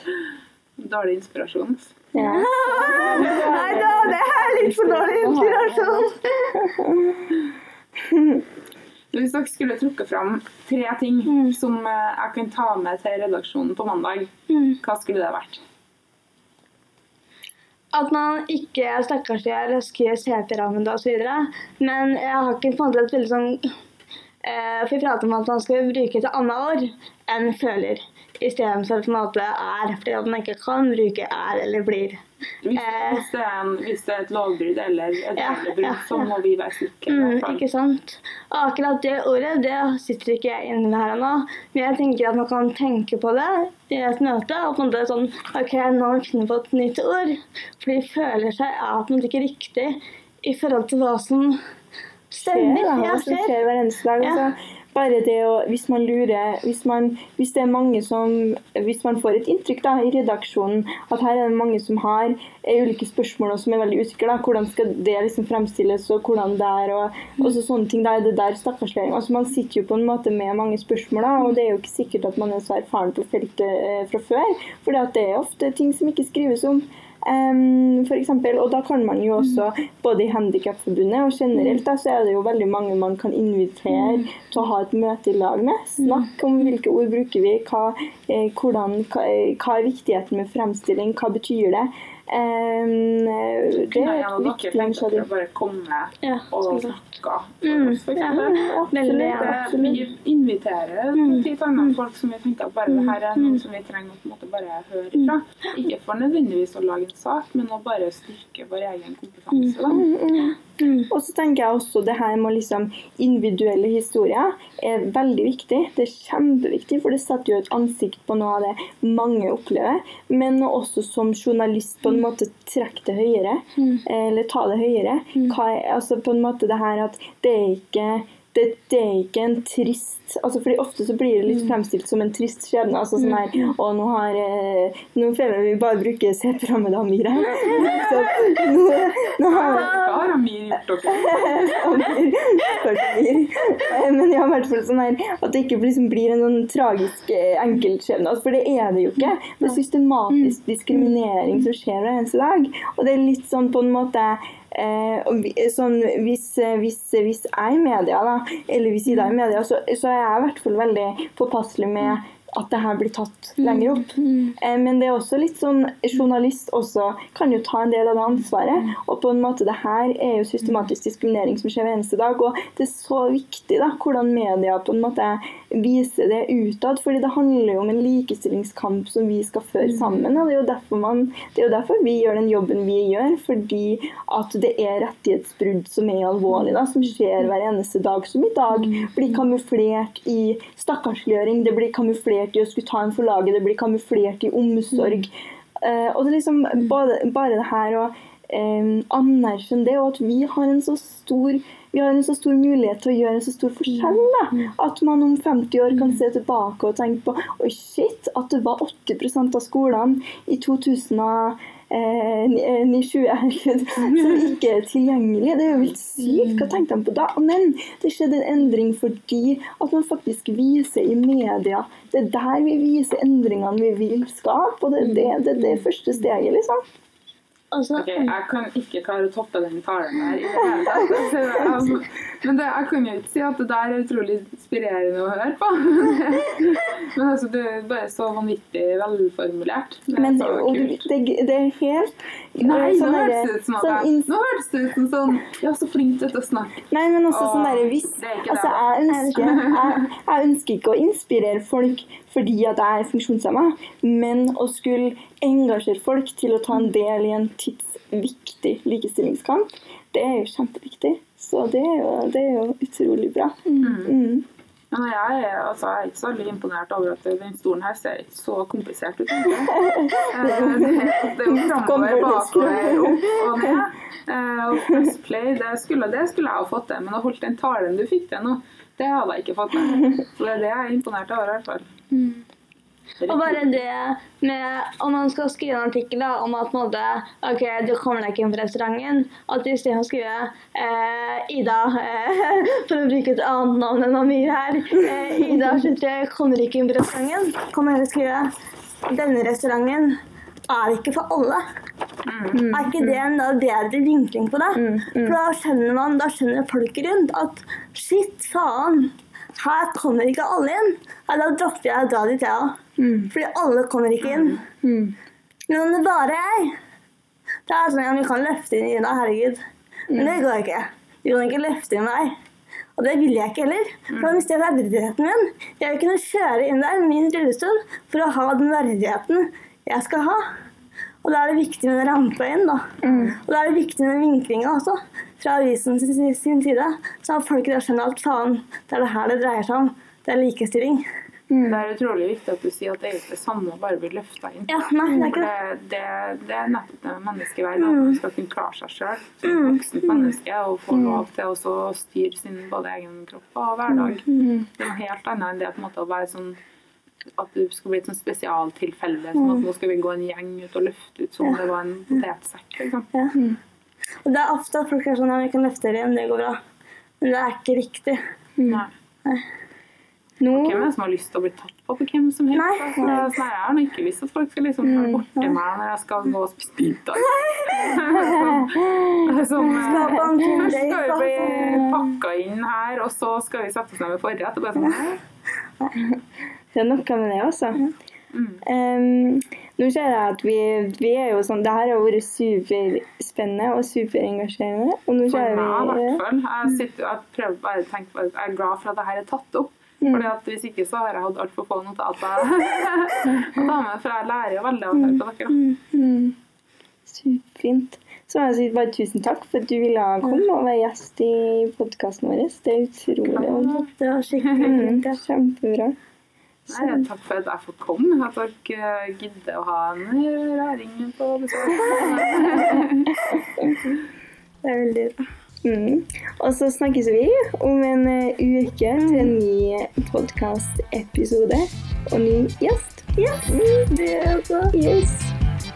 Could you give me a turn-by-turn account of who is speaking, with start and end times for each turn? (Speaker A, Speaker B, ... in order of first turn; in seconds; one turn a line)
Speaker A: 0.8-2.0
Speaker B: 2.1-4.1
Speaker C: 2.1-6.7
Speaker A: 2.8-6.1
Speaker B: 6.6-7.2
Speaker B: 8.0-8.4
Speaker A: 9.1-15.6
Speaker C: 11.3-11.6
Speaker C: 14.5-14.8
Speaker C: 17.9-23.7
Speaker C: 24.4-32.2
Speaker A: 32.6-37.6
Speaker C: 32.7-33.2
Speaker C: 35.4-36.3
Speaker C: 37.1-51.6
Speaker C: 52.3-53.5
Speaker B: 52.4-95.2
Speaker C: 54.2-54.5
Speaker C: 83.9-84.3
Speaker C: 86.0-86.3
Speaker A: 93.7-110.0
Speaker C: 96.2-97.0
Speaker C: 97.6-100.0
Speaker B: 98.2-100.0
Speaker C: 101.2-101.9
Speaker C: 102.9-103.6
Speaker B: 109.9-110.6
Speaker C: 110.8-111.1
Speaker B: 111.1-140.1
Speaker C: 123.8-124.0
Speaker A: 139.5-142.0
Speaker B: 141.1-226.8
Speaker C: 163.6-164.5
Speaker C: 203.9-204.7
Speaker C: 205.9-206.2
Speaker C: 214.1-214.4
Speaker A: 215.7-216.0
Speaker C: 216.2-216.8
Speaker A: 225.0-225.3
Speaker C: 227.7-228.3
Speaker A: 227.9-241.0
Speaker B: 240.2-244.3
Speaker A: 242.6-249.9
Speaker B: 246.9-264.4
Speaker C: 249.1-249.9
Speaker A: 263.8-264.1
Speaker A: 264.9-281.9
Speaker B: 269.7-273.7
Speaker C: 282.1-282.4
Speaker A: 283.2-283.7
Speaker C: 283.3-298.5
Speaker C: 299.1-301.6
Speaker A: 302.2-302.7
Speaker B: 302.5-303.2
Speaker C: 302.7-312.8
Speaker B: 304.7-305.4
Speaker B: 313.0-313.3
Speaker C: 313.3-314.6
Speaker A: 314.2-314.6
Speaker B: 314.8-315.1
Speaker C: 315.7-316.8
Speaker C: 317.7-322.4
Speaker B: 320.1-320.4
Speaker C: 323.0-330.4
Speaker A: 324.1-324.4
Speaker C: 331.2-341.1
Speaker B: 333.0-333.4
Speaker A: 333.0-333.4
Speaker B: 341.5-341.8
Speaker A: 341.6-356.6
Speaker C: 344.7-345.5
Speaker C: 347.8-348.2
Speaker C: 349.4-350.3
Speaker C: 353.9-354.5
Speaker B: 354.4-354.7
Speaker A: 357.4-363.1
Speaker C: 364.2-366.6
Speaker C: 367.2-368.2
Speaker B: 368.6-368.8
Speaker A: 368.6-368.9
Speaker B: 370.4-370.9
Speaker A: 370.5-385.2
Speaker C: 372.5-373.3
Speaker B: 375.0-375.2
Speaker B: 378.1-379.3
Speaker C: 379.7-382.0
Speaker B: 379.8-380.9
Speaker B: 381.4-381.9
Speaker B: 386.7-387.8
Speaker A: 388.3-388.6
Speaker B: 388.6-396.2
Speaker A: 395.3-405.6
Speaker B: 400.0-400.3
Speaker C: 404.9-405.8
Speaker B: 405.9-406.3
Speaker B: 407.1-413.8
Speaker A: 413.2-414.8
Speaker C: 413.9-415.2
Speaker B: 414.6-415.9
Speaker B: 416.7-417.0
Speaker A: 416.7-423.1
Speaker B: 421.8-422.8
Speaker C: 421.9-422.8
Speaker C: 424.6-425.3
Speaker B: 425.6-433.9
Speaker C: 429.0-429.3
Speaker C: 433.2-434.7
Speaker B: 434.7-435.3